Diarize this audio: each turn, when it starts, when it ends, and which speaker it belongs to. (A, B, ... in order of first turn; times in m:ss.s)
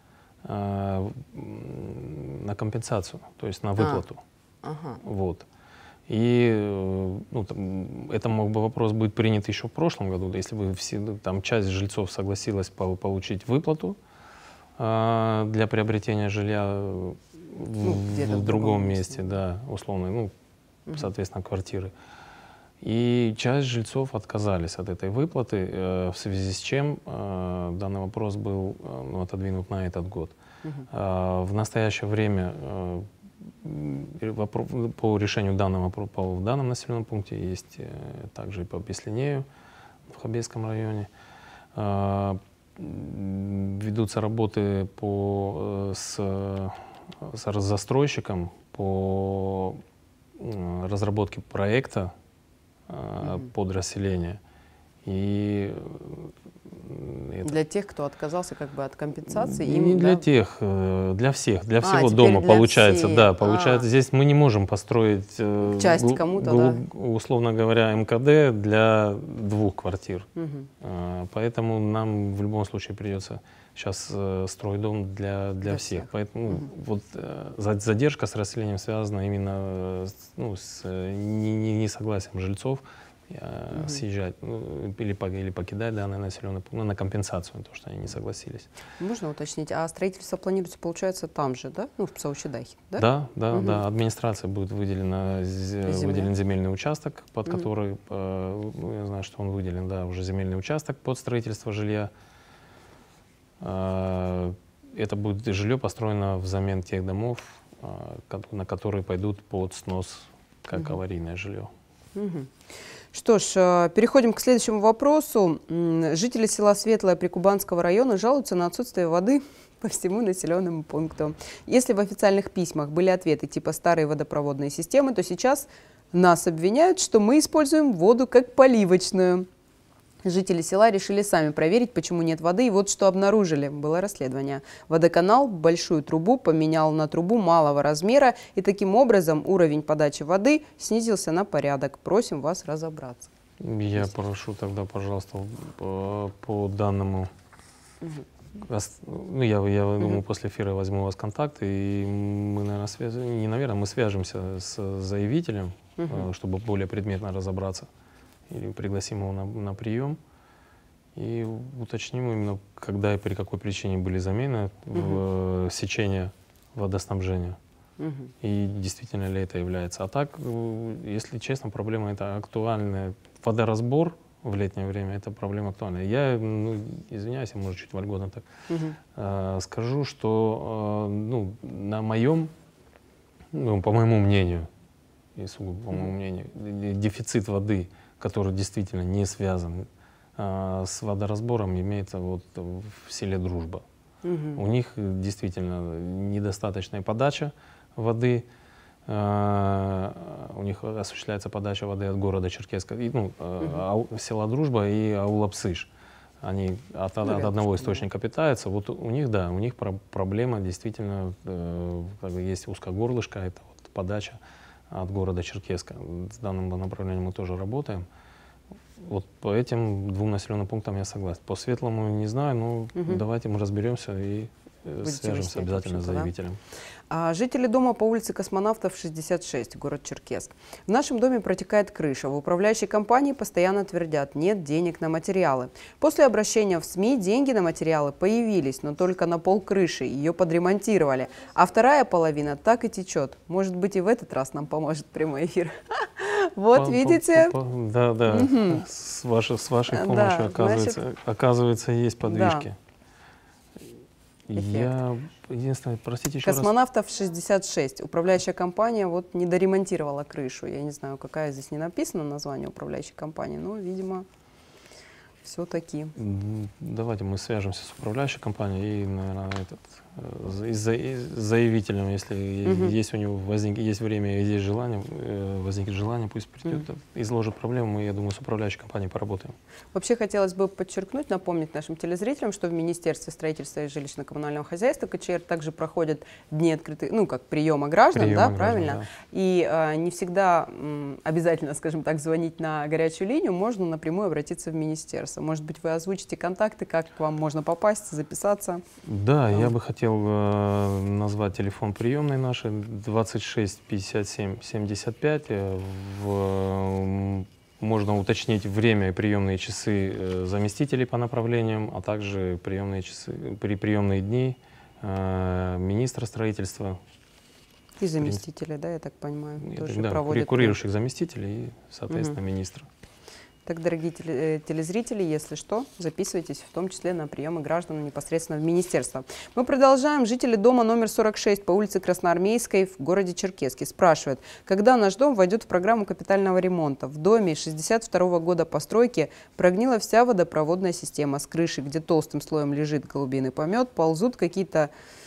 0:00.4-0:04.2 A
0:03.8-0:04.0 B
0:04.6-0:05.0 B
0:05.0-0:05.5 A
0:06.1-0:14.0 A
0:14.8-0:20.3 A
0:17.8-0:19.3 B
0:20.9-0:21.9 A
0:22.8-0:30.4 A
0:30.9-0:39.5 A
0:40.1-0:41.1 A
0:41.8-0:49.8 A
0:50.4-0:52.1 A
0:52.9-0:54.4 A
0:53.2-0:53.5 B
0:55.0-0:57.5 A
0:57.4-1:00.2 B
0:59.3-1:10.3 A
1:01.8-1:03.9 B
1:05.8-1:06.8 B
1:10.4-1:10.7 B
1:10.8-1:28.7 A
1:15.6-1:16.7 B
1:23.7-1:24.0 B
1:29.0-1:33.8 B
1:33.0-1:42.1 A
1:35.9-1:36.3 B
1:43.6-1:51.7 A
1:52.2-1:52.5 B
1:53.1-2:09.5 B
2:10.2-2:23.3 B
2:23.6-2:27.3 A
2:28.6-2:37.9 A
2:36.0-2:36.3 B
2:38.5-2:40.2 A
2:41.2-2:47.6 A
2:45.0-2:45.2 B
2:48.0-2:48.3 B
2:48.4-2:58.5 A
2:58.7-2:59.0 B
2:59.1-3:02.5 A
3:03.5-3:04.7 A
3:05.4-3:13.8 A
3:14.2-3:14.6 B
3:14.6-3:18.5 A
3:19.1-3:25.9 A
3:26.4-3:38.1 A
3:27.2-3:28.0 B
3:39.0-3:46.6 A
3:43.0-3:43.2 B
3:45.0-3:46.3 B
3:47.1-4:07.5 B
4:06.7-4:12.8 A
4:08.3-4:08.8 B
4:09.9-4:11.0 B
4:12.2-4:12.7 B
4:14.5-4:16.7 A
4:14.6-4:14.9 B
4:16.4-4:24.3 B
4:25.4-4:26.1 B
4:26.2-4:39.6 A
4:32.6-4:33.0 B
4:39.9-4:58.8 B
4:48.1-4:49.1 A
4:59.0-5:17.0 A
5:18.0-5:20.8 B
5:19.6-5:22.9 A
5:22.1-5:22.4 B
5:23.7-5:44.9 B